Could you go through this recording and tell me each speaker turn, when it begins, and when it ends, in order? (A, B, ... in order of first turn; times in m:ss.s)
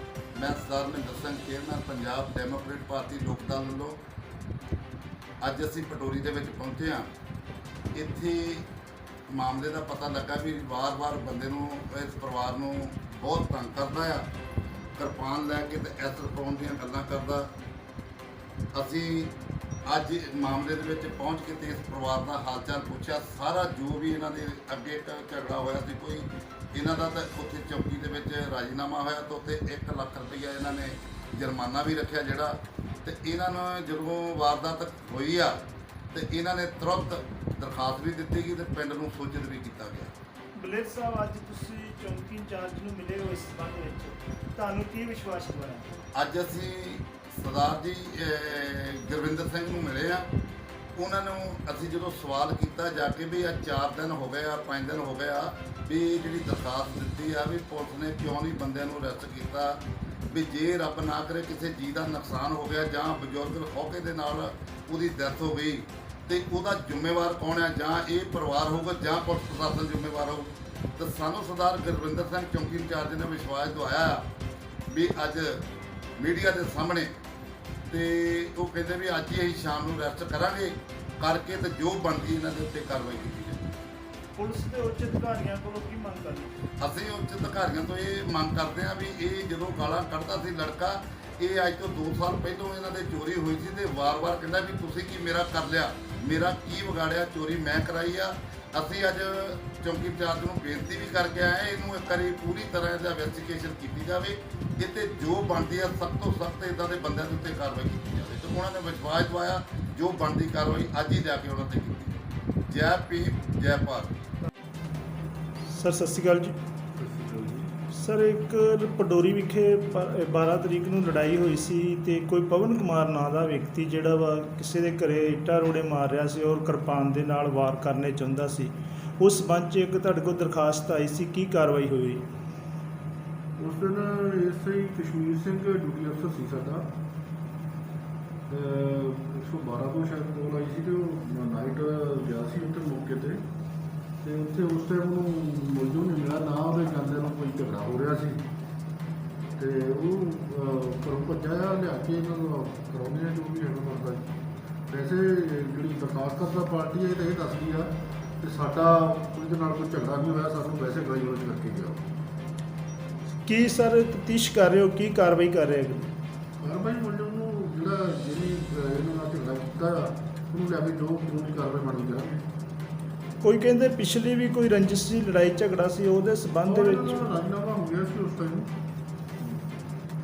0:00.4-0:04.0 A
0:05.4-0:07.1 A
0:07.9-0:08.7 A
0:09.3-0:14.3 A
0:15.0-0:17.5 A
0:18.7-0:19.3 A
0:19.9-0:35.6 A
0:36.1-0:40.1 A
0:40.6-0:45.9 B
0:46.2-0:50.3 A
0:51.0-1:14.3 A
1:14.9-1:15.6 A
1:16.2-1:17.1 A
1:17.9-1:23.7 A
1:24.4-1:26.6 B
1:26.8-1:54.1 A
1:55.7-1:56.5 B
1:57.0-1:57.7 C
1:57.9-2:12.2 B
2:13.6-2:16.9 C
2:18.5-2:23.4 C
2:24.2-2:28.4 C
2:29.6-2:34.3 C
2:34.9-2:42.0 C
2:43.4-2:46.1 B
2:46.6-2:52.5 C
2:53.4-2:57.3 B
2:56.6-2:58.7 C
2:59.4-2:59.7 C